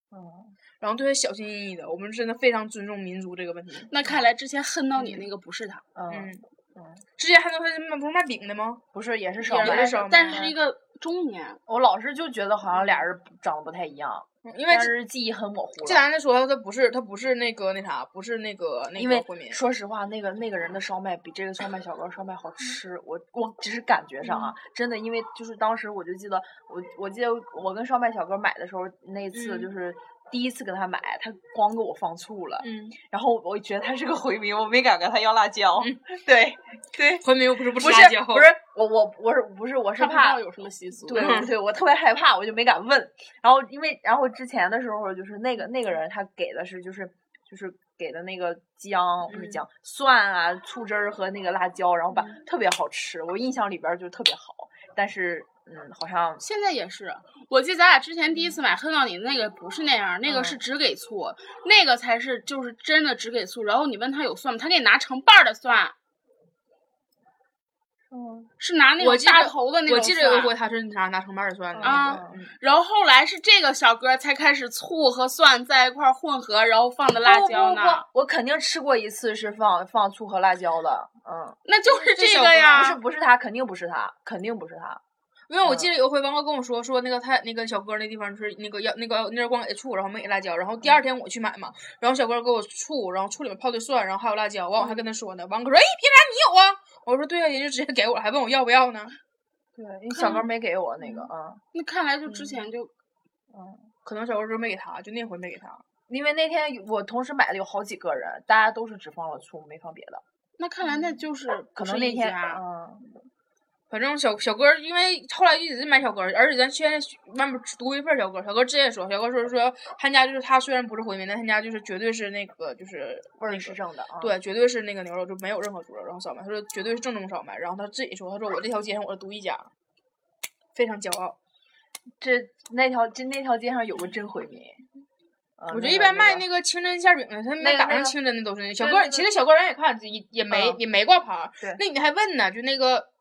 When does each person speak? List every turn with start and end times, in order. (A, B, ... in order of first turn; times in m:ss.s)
0:00.1-0:00.6 A
0:00.8-0:03.9 B
0:03.9-0:05.8 C
0:05.9-0:07.0 A
0:06.1-0:06.4 B
0:07.2-0:08.8 B
0:08.9-0:10.5 A
0:09.4-0:11.6 C
0:09.6-0:10.5 B
0:11.7-0:16.1 A
0:12.8-0:13.0 B
0:14.4-0:14.9 B
0:15.8-0:19.6 B
0:19.0-0:40.4 A
0:24.2-0:24.5 B
0:29.3-0:29.7 B
0:32.6-0:33.0 B
0:37.2-0:38.5 B
0:40.0-0:41.4 C
0:41.1-0:56.4 A
0:41.1-0:41.5 B
0:56.4-1:05.9 C
1:00.3-1:00.6 A
1:08.1-1:08.5 A
1:08.6-1:10.5 C
1:09.0-1:12.4 B
1:11.7-1:12.4 A
1:11.8-1:18.0 C
1:17.2-1:21.6 A
1:21.6-1:23.0 C
1:21.9-1:22.9 B
1:22.7-1:25.0 A
1:25.5-1:39.2 B
1:25.6-1:25.9 A
1:34.8-1:35.0 A
1:39.8-1:41.6 A
1:40.1-1:40.4 C
1:41.7-1:42.9 C
1:42.3-1:42.6 A
1:43.5-1:43.9 A
1:44.0-1:45.8 B
1:46.1-1:50.2 A
1:50.6-1:52.6 C
1:51.0-1:51.2 A
1:51.7-1:53.1 A
1:53.9-2:09.7 B
2:03.4-2:04.3 A
2:10.7-2:11.4 B
2:12.2-2:14.8 A
2:15.6-2:16.4 A
2:15.7-2:23.1 B
2:17.6-2:18.2 A
2:18.8-2:19.3 A
2:20.5-2:20.8 A